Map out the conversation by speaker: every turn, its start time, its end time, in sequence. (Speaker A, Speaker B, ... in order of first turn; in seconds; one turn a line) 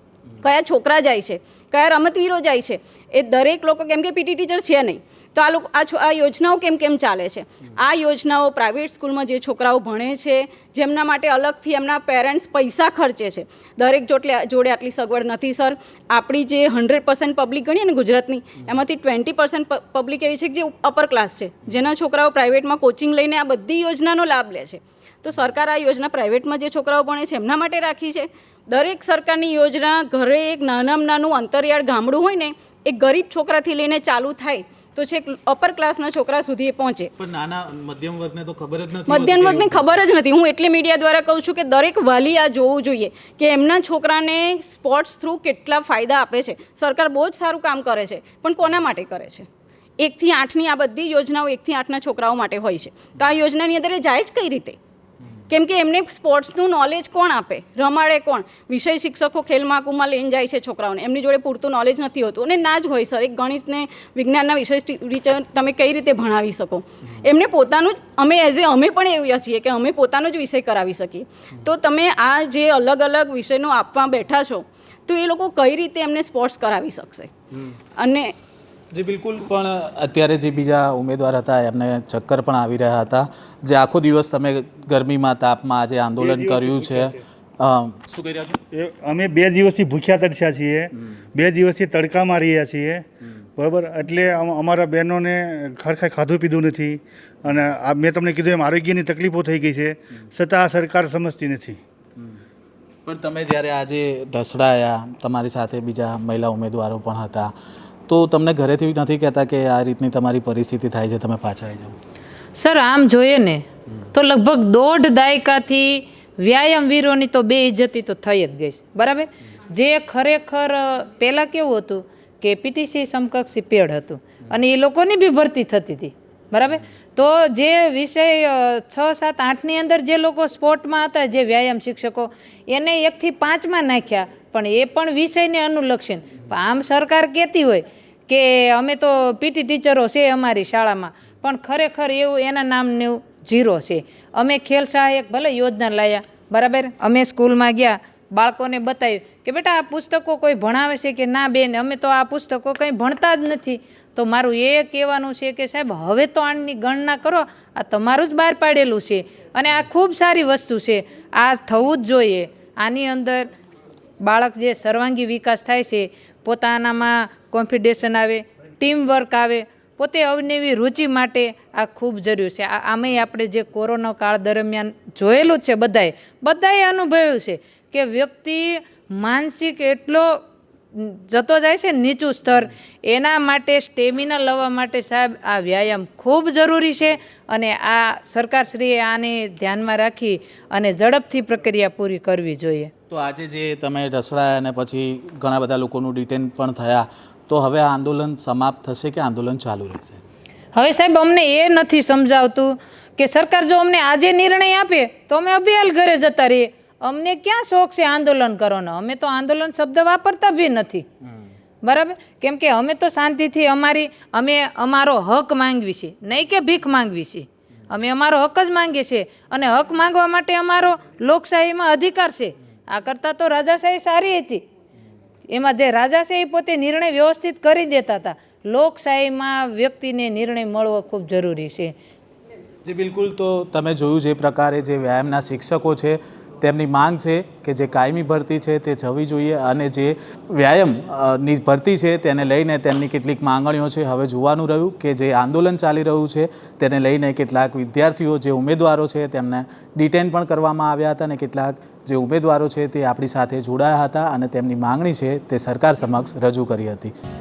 Speaker A: 0.4-37.1
Speaker B: 37.2-40.0
Speaker A: 39.1-49.5
Speaker A: 50.0-54.8
Speaker A: 55.5-77.3
Speaker A: 78.0-78.3
Speaker B: 78.9-88.6
Speaker C: 86.2-87.1
Speaker C: 88.7-101.8
Speaker B: 103.0-107.5
Speaker B: 108.1-112.0
Speaker D: 112.6-163.5
Speaker D: 164.2-180.3
Speaker D: 180.9-192.9
Speaker B: 193.1-200.2
Speaker D: 200.7-211.1
Speaker D: 211.8-224.6
Speaker D: 225.5-231.9
Speaker B: 232.8-257.1